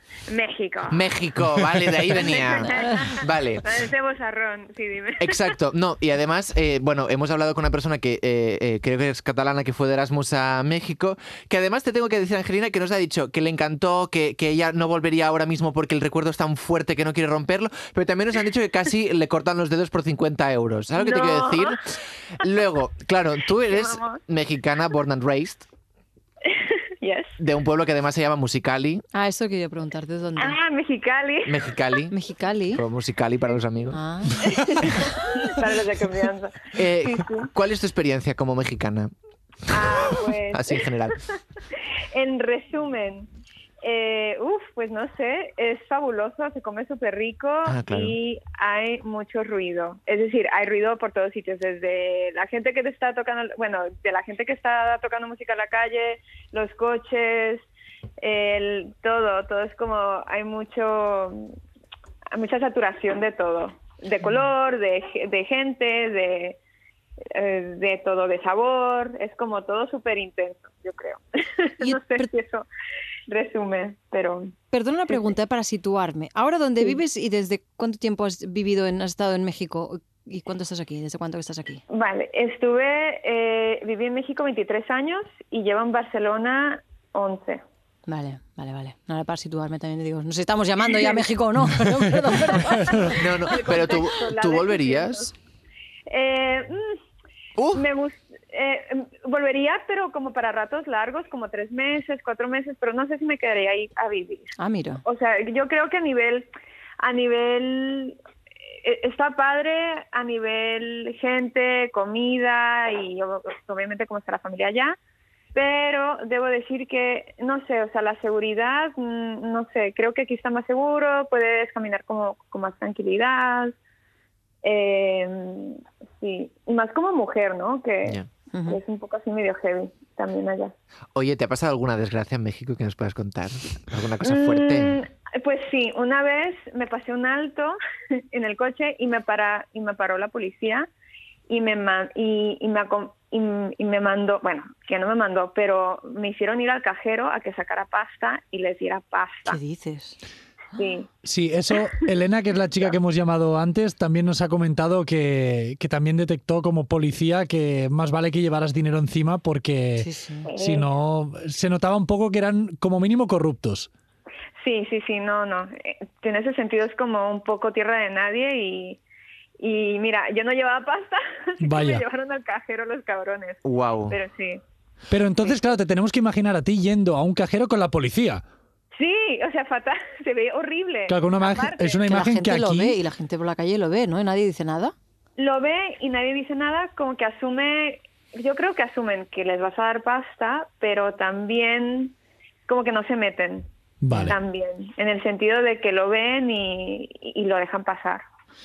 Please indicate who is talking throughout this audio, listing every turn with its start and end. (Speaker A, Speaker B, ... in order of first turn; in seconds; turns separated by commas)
Speaker A: 0.3-1.1, Speaker B: 0.9-3.9, Speaker A: 2.1-5.5, Speaker B: 5.2-25.6, Speaker A: 21.0-21.8, Speaker A: 23.6-24.2, Speaker A: 26.5-27.3, Speaker B: 27.4-29.0, Speaker C: 29.1-30.6, Speaker A: 30.4-31.6, Speaker B: 31.4-32.1, Speaker C: 32.1-32.8, Speaker B: 32.7-34.0, Speaker C: 33.9-34.5, Speaker A: 34.4-37.5, Speaker B: 36.7-39.1, Speaker A: 39.7-41.1, Speaker B: 39.7-41.2, Speaker A: 42.1-43.3, Speaker A: 43.8-57.6, Speaker B: 47.7-48.2, Speaker A: 58.2-61.5, Speaker A: 62.3-66.6, Speaker A: 67.3-72.7, Speaker C: 71.8-72.3, Speaker A: 73.3-74.5, Speaker C: 74.7-81.8, Speaker A: 81.9-87.6, Speaker C: 88.1-93.3, Speaker A: 90.9-91.2, Speaker A: 92.9-95.3, Speaker B: 93.1-95.3, Speaker A: 96.1-97.0, Speaker B: 97.6-97.8, Speaker A: 97.7-106.5, Speaker C: 104.6-105.0, Speaker A: 107.0-108.2, Speaker A: 108.8-115.0, Speaker A: 115.5-123.7, Speaker A: 124.6-130.7, Speaker C: 128.5-128.8, Speaker B: 131.1-135.0, Speaker A: 134.2-137.8, Speaker A: 138.3-140.9, Speaker A: 141.5-149.6, Speaker C: 149.5-150.2, Speaker A: 150.7-151.1, Speaker D: 151.2-163.9, Speaker C: 160.0-160.5, Speaker A: 160.5-160.9, Speaker A: 164.6-169.0, Speaker A: 169.6-174.6, Speaker D: 171.6-172.0, Speaker B: 173.6-174.2, Speaker D: 175.1-178.4, Speaker A: 178.9-182.1, Speaker D: 181.1-183.0, Speaker C: 182.1-184.9, Speaker A: 185.4-192.1, Speaker A: 192.7-193.7, Speaker D: 194.0-194.4, Speaker A: 194.2-198.2